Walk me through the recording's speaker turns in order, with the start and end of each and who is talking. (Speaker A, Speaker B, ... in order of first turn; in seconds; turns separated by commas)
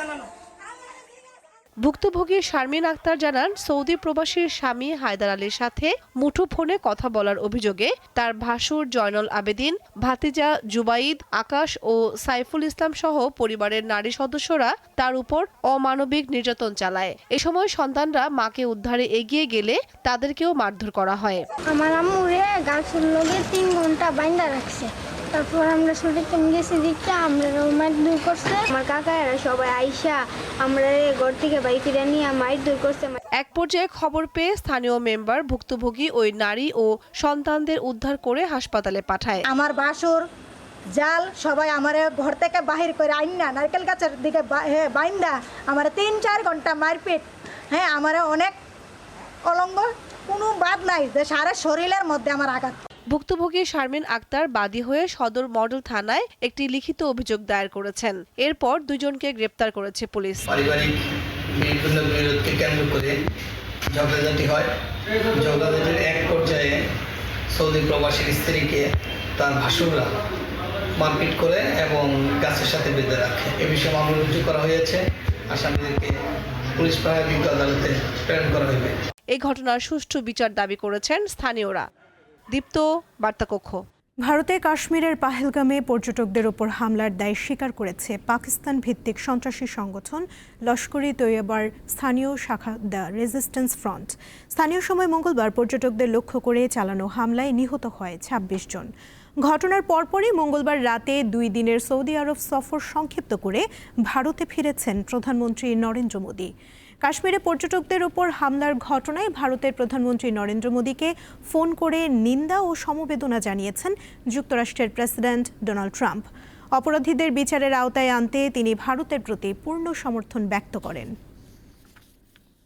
Speaker A: 1.8-21.4, Speaker B: 21.7-33.2, Speaker A: 33.4-39.5, Speaker C: 39.5-40.2, Speaker C: 41.0-48.5, Speaker C: 49.5-52.7, Speaker A: 53.1-60.4, Speaker D: 60.5-61.0, Speaker D: 61.5-63.1, Speaker D: 63.9-64.7, Speaker D: 65.3-66.8, Speaker D: 67.5-68.8, Speaker D: 69.4-70.1, Speaker D: 71.0-76.1, Speaker D: 76.8-78.9, Speaker A: 79.3-81.9, Speaker A: 82.5-83.8, Speaker E: 84.2-98.9, Speaker E: 99.4-106.5, Speaker E: 107.0-121.1